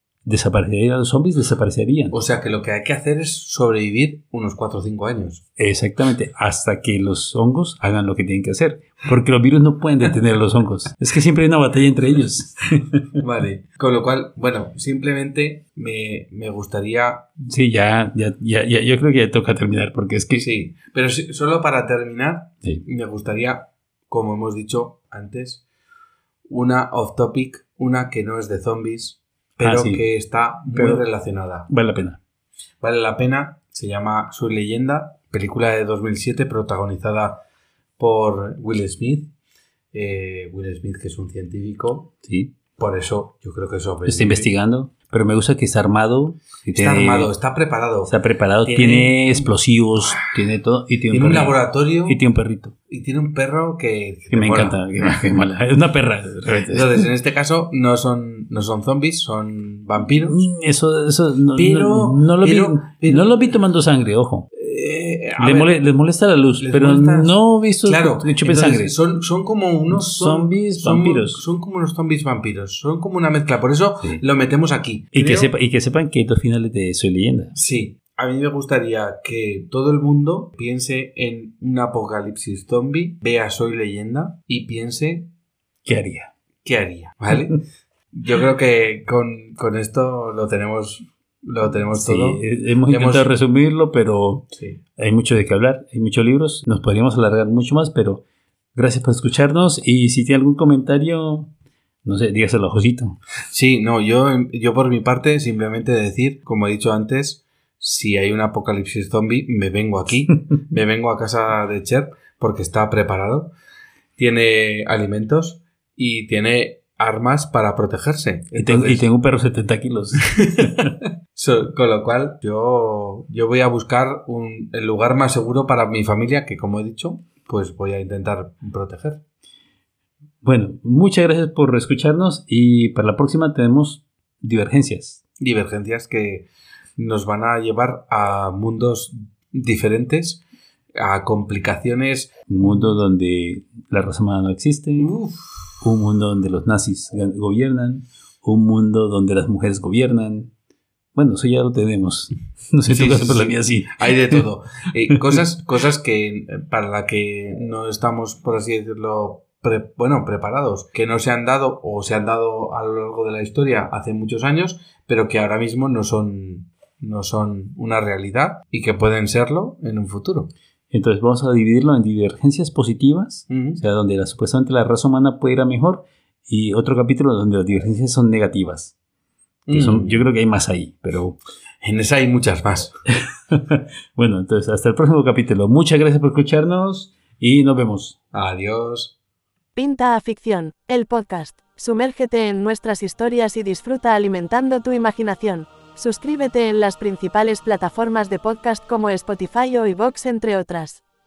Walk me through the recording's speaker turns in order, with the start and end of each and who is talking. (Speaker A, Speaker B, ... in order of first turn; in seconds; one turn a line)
Speaker A: 0.3-2.2
Speaker B: 2.1-5.4
Speaker A: 5.6-13.1
Speaker B: 13.2-17.2
Speaker A: 17.4-20.5
Speaker B: 20.4-25.6
Speaker B: 26.5-31.7
Speaker A: 29.6-30.0
Speaker A: 30.7-31.0
Speaker A: 31.7-32.2
Speaker B: 32.8-37.4
Speaker B: 38.0-39.3
Speaker B: 39.9-42.1
Speaker A: 42.2-42.5
Speaker B: 42.8-44.5
Speaker A: 44.1-47.3
Speaker B: 46.7-50.4
Speaker A: 48.0-52.7
Speaker B: 51.1-52.2
Speaker B: 52.9-54.8
Speaker A: 54.3-57.0
Speaker B: 56.6-60.4
Speaker A: 60.2-64.5
Speaker B: 61.5-63.6
Speaker B: 64.5-65.8
Speaker A: 65.4-68.9
Speaker B: 66.6-75.5
Speaker A: 69.9-71.4
Speaker A: 75.1-77.6
Speaker B: 77.5-85.3
Speaker A: 85.8-86.3
Speaker B: 86.7-93.3
Speaker A: 92.0-94.5
Speaker A: 95.0-98.2
Speaker A: 98.8-101.5
Speaker A: 102.0-103.2
Speaker B: 103.5-113.5
Speaker B: 114.2-119.0
Speaker A: 118.5-120.9
Speaker B: 120.2-129.2
Speaker A: 130.4-135.2
Speaker B: 135.4-140.4
Speaker B: 140.9-142.9
Speaker A: 142.5-145.1
Speaker B: 145.0-145.8
Speaker A: 145.8-150.5
Speaker A: 151.2-154.4
Speaker B: 152.9-170.5
Speaker A: 170.9-178.9
Speaker B: 173.5-173.8
Speaker B: 179.7-180.2
Speaker A: 179.7-181.4
Speaker B: 181.8-182.9
Speaker A: 183.3-188.2
Speaker B: 188.3-189.1
Speaker C: 189.8-201.0